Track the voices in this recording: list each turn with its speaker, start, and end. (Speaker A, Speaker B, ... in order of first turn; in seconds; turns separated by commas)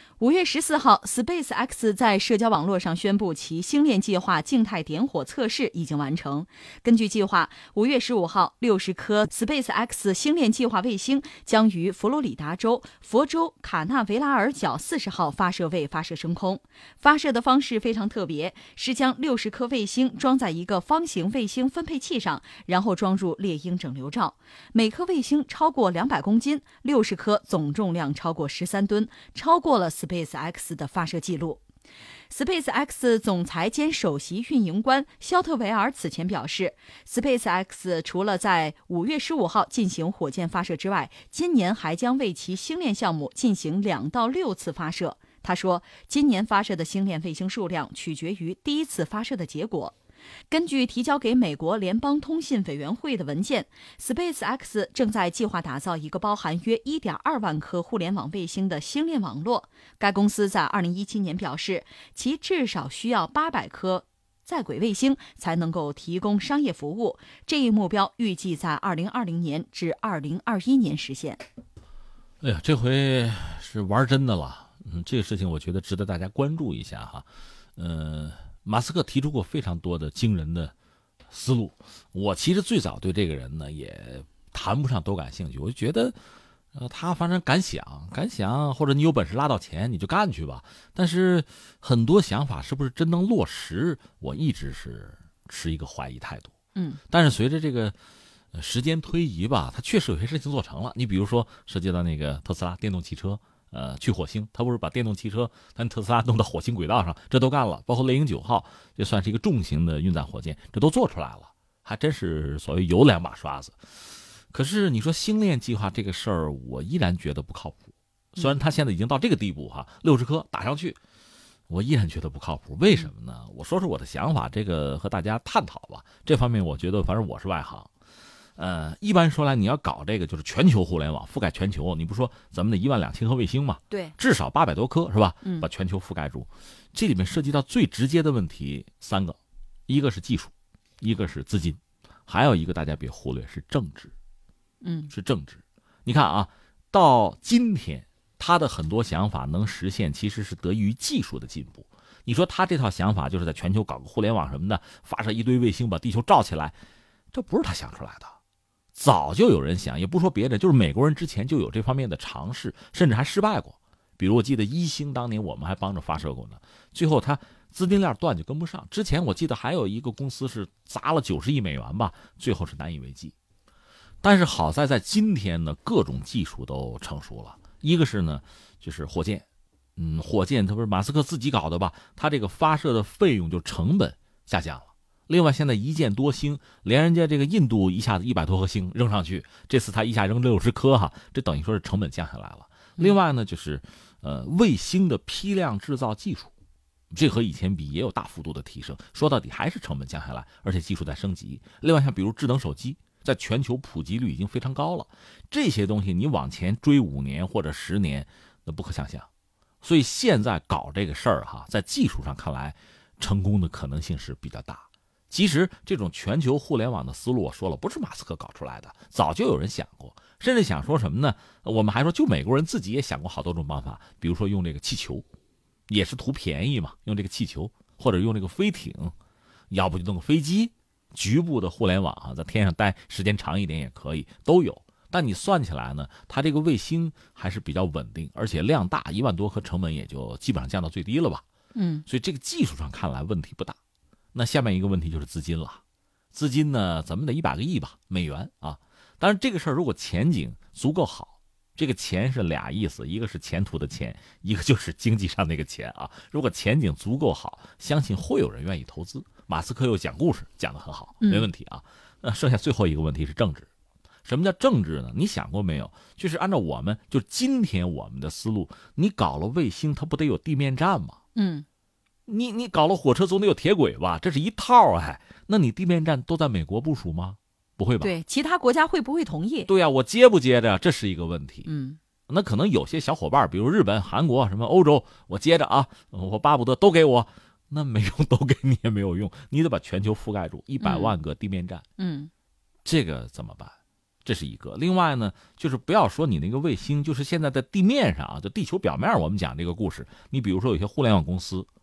Speaker A: 0.2-31.6, Speaker A: 32.3-50.0, Speaker A: 50.5-71.4, Speaker B: 72.4-80.7, Speaker B: 81.3-86.2, Speaker B: 86.7-96.5, Speaker A: 96.8-97.0, Speaker B: 97.1-98.0, Speaker B: 98.5-114.0, Speaker B: 114.5-121.0, Speaker B: 121.7-127.9, Speaker B: 128.6-139.4, Speaker A: 135.4-135.7, Speaker B: 139.9-144.1, Speaker A: 144.8-145.1, Speaker B: 145.1-156.8, Speaker B: 157.3-158.4, Speaker B: 158.9-173.3, Speaker B: 174.2-179.4, Speaker B: 180.0-196.5, Speaker B: 197.1-209.3, Speaker B: 209.8-225.2, Speaker B: 225.9-229.1, Speaker B: 229.7-241.4, Speaker A: 241.8-242.1, Speaker B: 242.1-243.8, Speaker B: 244.3-245.8, Speaker B: 246.3-263.7, Speaker A: 261.2-261.5, Speaker B: 264.2-271.2, Speaker A: 271.4-271.7, Speaker B: 272.3-278.1, Speaker A: 278.0-279.7, Speaker B: 279.7-281.7, Speaker A: 281.6-282.0, Speaker B: 282.3-291.9, Speaker A: 290.8-291.1, Speaker A: 292.0-292.3, Speaker B: 292.9-301.7